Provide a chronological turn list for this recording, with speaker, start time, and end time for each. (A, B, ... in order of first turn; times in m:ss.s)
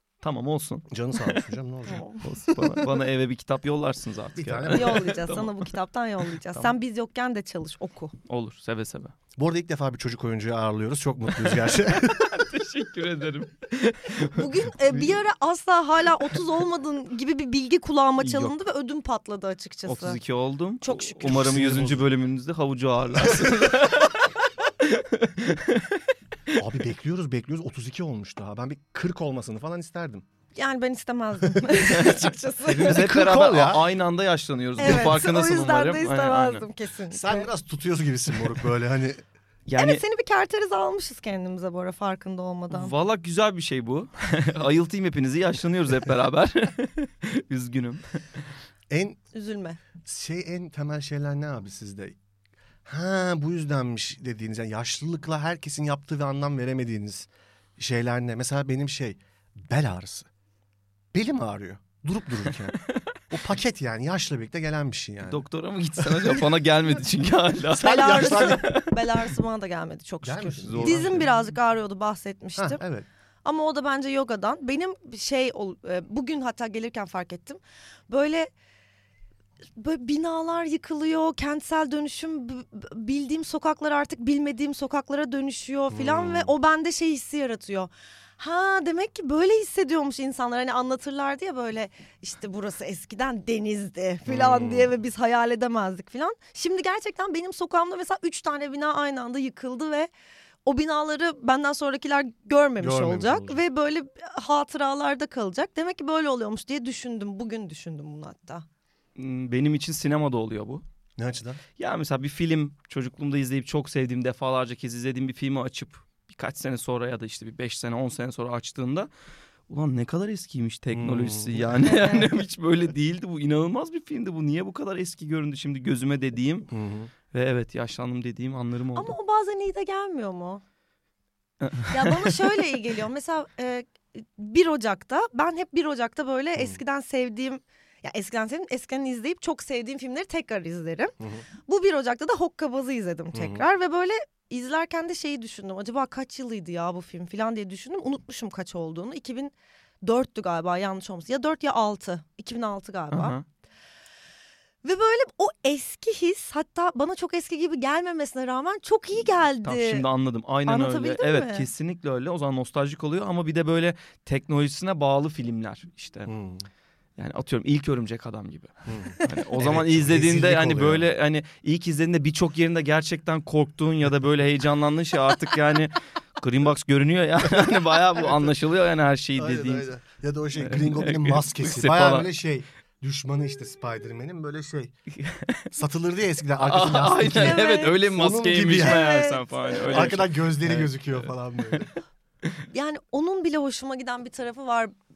0:00.2-0:01.4 A
0:00.9-0:02.0 B
0:01.9-0:02.9 C
0:02.2-0:05.7 A
0:04.4-0:05.0 B
0:04.7-0:08.1 C
0:08.3-0:09.1 A
0:09.4-0:12.3 B
0:11.4-0:15.1 A
0:14.3-0:20.2 C
0:18.2-0:18.5 A
0:19.9-0:26.6 A
0:20.8-0:21.3 C
0:21.2-0:22.1 B
0:23.2-0:23.5 B
0:26.5-0:30.2 B
0:30.5-0:33.0 C
0:31.9-0:36.6 A
0:32.6-0:33.8 B
0:34.8-0:37.5 C
0:37.1-0:39.2 B
0:39.7-0:40.0 A
0:39.8-0:42.9 C
0:42.7-0:48.2 A
0:48.9-0:49.2 B
0:49.3-0:49.8 C
0:50.0-0:52.2 B
0:52.8-1:00.3 B
1:01.1-1:05.4 B
1:05.3-1:08.9 A
1:06.0-1:06.4 B
1:07.7-1:08.7 B
1:07.8-1:12.8 C
1:10.2-1:11.2 B
1:10.6-1:11.3 A
1:12.6-1:13.1 B
1:13.4-1:18.5 C
1:19.8-1:40.1 C
1:25.9-1:26.5 B
1:34.3-1:34.9 B
1:40.6-1:48.6 C
1:42.8-1:43.6 B
1:49.2-1:50.8 A
1:51.2-1:51.6 B
1:51.8-1:59.1 A
1:59.7-2:06.7 A
2:00.9-2:01.9 B
2:01.8-2:02.2 C
2:06.7-2:07.1 B
2:07.3-2:09.1 A
2:09.0-2:10.6 C
2:11.6-2:12.5 A
2:11.9-2:21.1 C
2:21.2-2:21.4 B
2:21.6-2:33.4 C
2:23.3-2:23.6 B
2:33.1-2:33.4 A
2:34.8-2:40.1 C
2:39.6-2:46.3 A
2:40.6-2:41.7 C
2:46.3-2:46.7 B
2:47.2-2:59.9 A
2:48.9-2:51.1 B
2:58.2-2:58.5 B
2:59.4-3:05.0 B
3:00.6-3:02.3 A
3:05.2-3:05.6 A
3:05.7-3:09.2 B
3:06.6-3:11.8 A
3:07.2-3:08.1 C
3:08.7-3:10.1 C
3:09.9-3:11.9 B
3:12.7-3:14.9 C